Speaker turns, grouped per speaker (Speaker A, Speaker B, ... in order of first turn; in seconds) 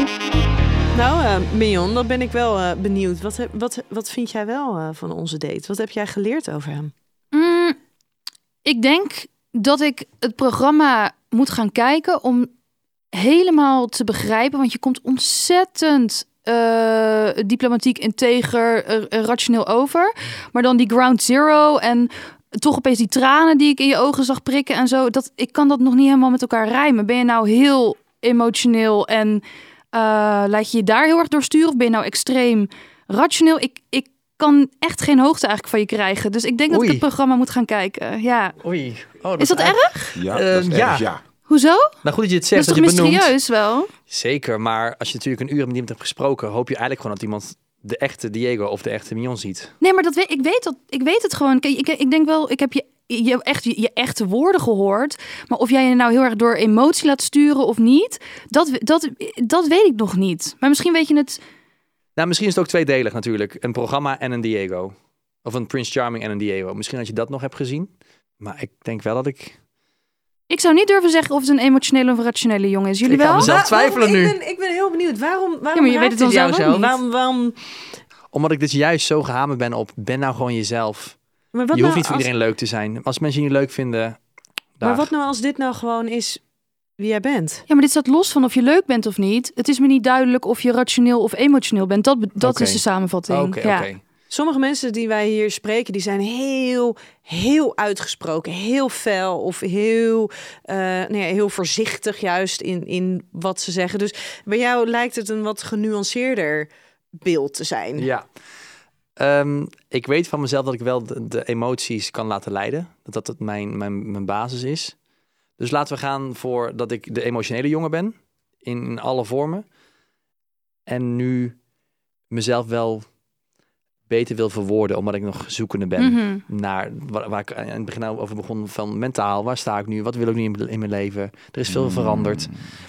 Speaker A: 0.9-6.9, 73.4-77.6, 81.5-82.3, 84.8-86.4, 87.0-87.6, 94.3-108.1
Speaker B: 7.3-7.8, 8.6-12.5, 13.1-38.6, 39.4-40.2, 41.5-42.0, 42.5-43.9, 49.8-61.4, 70.5-73.5, 75.7-77.0, 87.7-93.9, 126.0-126.4
Speaker C: 36.7-37.0, 38.6-41.1, 42.0-43.3, 44.1-49.7, 62.2-69.6, 73.0-74.4, 78.3-81.2, 81.7-84.2, 84.8-85.1, 92.4-94.0, 108.0-108.2, 109.2-114.9, 115.6-119.6, 120.9-121.5, 122.3-123.0, 124.1-132.5
Speaker D: 40.1-41.2, 131.7-132.6